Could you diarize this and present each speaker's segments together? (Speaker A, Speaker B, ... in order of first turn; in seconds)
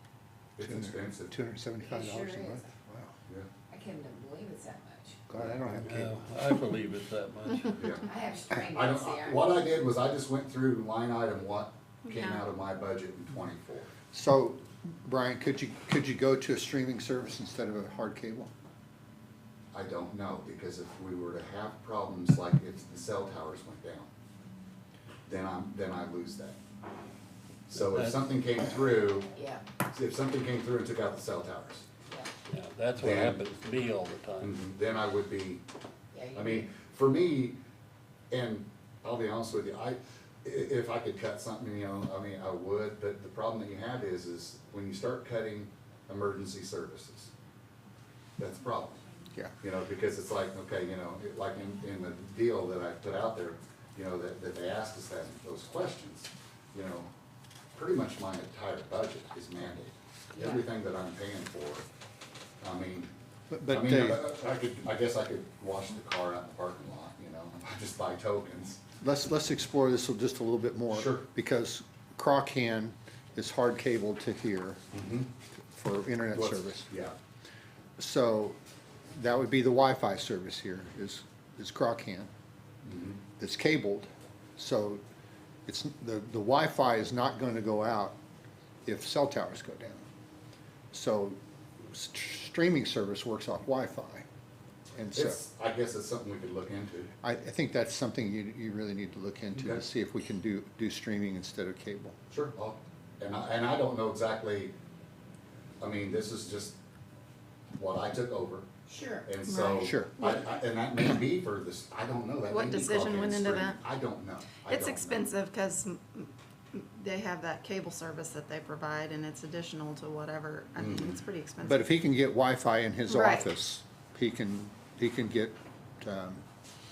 Speaker A: 0.6-1.3, 7.8-8.1, 8.7-13.9, 19.7-24.1, 25.2-26.6, 27.7-29.3, 29.8-31.9, 33.0-33.4, 34.4-35.6, 36.3-37.6, 38.3-47.3, 48.4-49.0, 49.6-57.1, 57.7-61.9, 62.6-63.1, 63.7-68.8, 70.9-71.2, 74.9-75.3, 76.3-77.1, 82.8-83.2, 95.1-97.1, 99.5-99.8, 102.3-104.7, 105.8-106.8, 107.8-108.7, 109.2-115.2, 120.8-121.2
Speaker B: 0.6-3.2, 5.3-6.1, 14.1-18.5, 63.5-64.2, 69.0-74.8, 75.6-76.9, 78.0-78.6, 79.1-82.3, 83.4-85.0, 85.7-88.2, 88.8-90.0, 90.9-91.4, 91.9-94.2, 94.9-95.4, 97.2-102.2, 109.8-110.2, 121.6-126.4
Speaker C: 1.8-2.7, 3.7-5.2, 8.0-9.6, 29.3-29.6, 32.1-32.3, 36.1-36.8, 60.3-60.6, 108.9-109.3
Speaker D: 5.8-8.0, 27.7-28.2, 32.5-34.5
Speaker E: 12.1-12.4, 109.5-110.4, 112.5-113.8, 114.6-121.8, 123.1-123.5